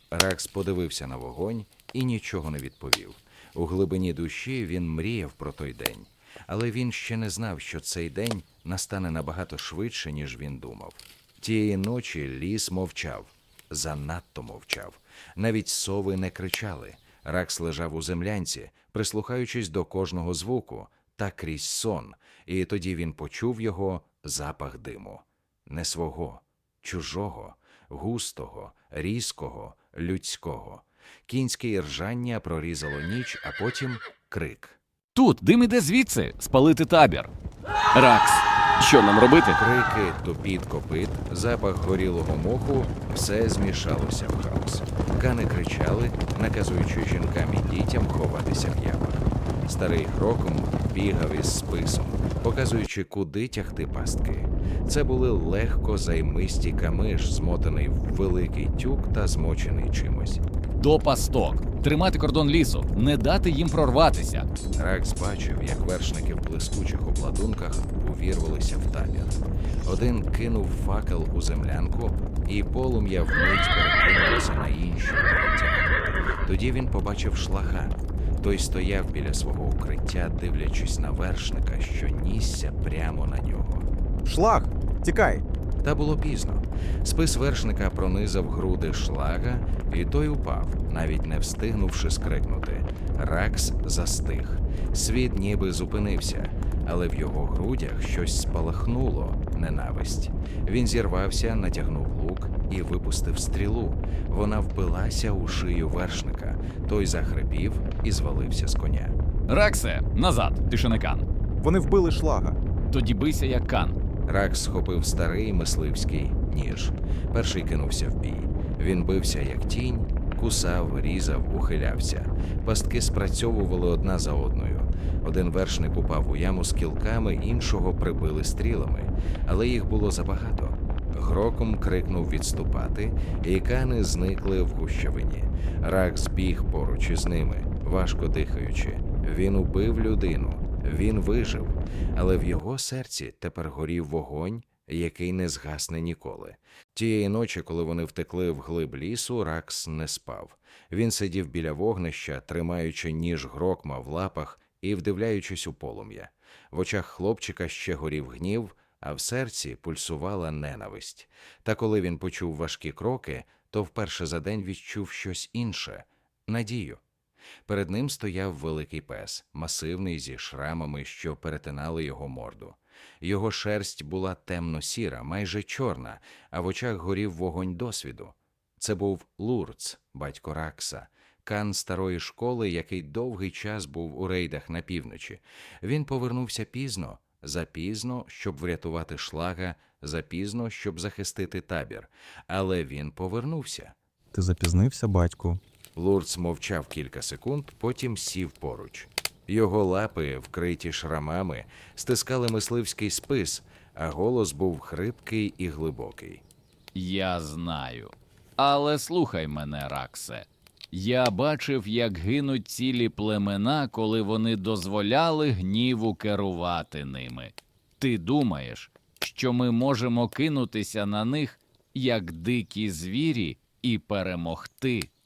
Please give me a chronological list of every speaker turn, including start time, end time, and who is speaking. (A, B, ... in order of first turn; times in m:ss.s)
0:00.1-0:34.8 A
0:35.2-0:37.3 B
0:37.9-0:39.6 B
0:39.6-1:00.4 A
1:00.8-1:04.5 B
1:04.8-1:23.9 A
1:24.2-1:25.4 C
1:25.8-1:49.2 A
1:49.5-1:51.2 B
1:51.6-1:52.6 C
1:52.9-1:54.0 B
1:54.3-2:47.0 A
2:47.7-3:14.0 A
3:14.3-3:15.6 C
3:16.0-3:26.4 A
3:27.0-3:45.1 B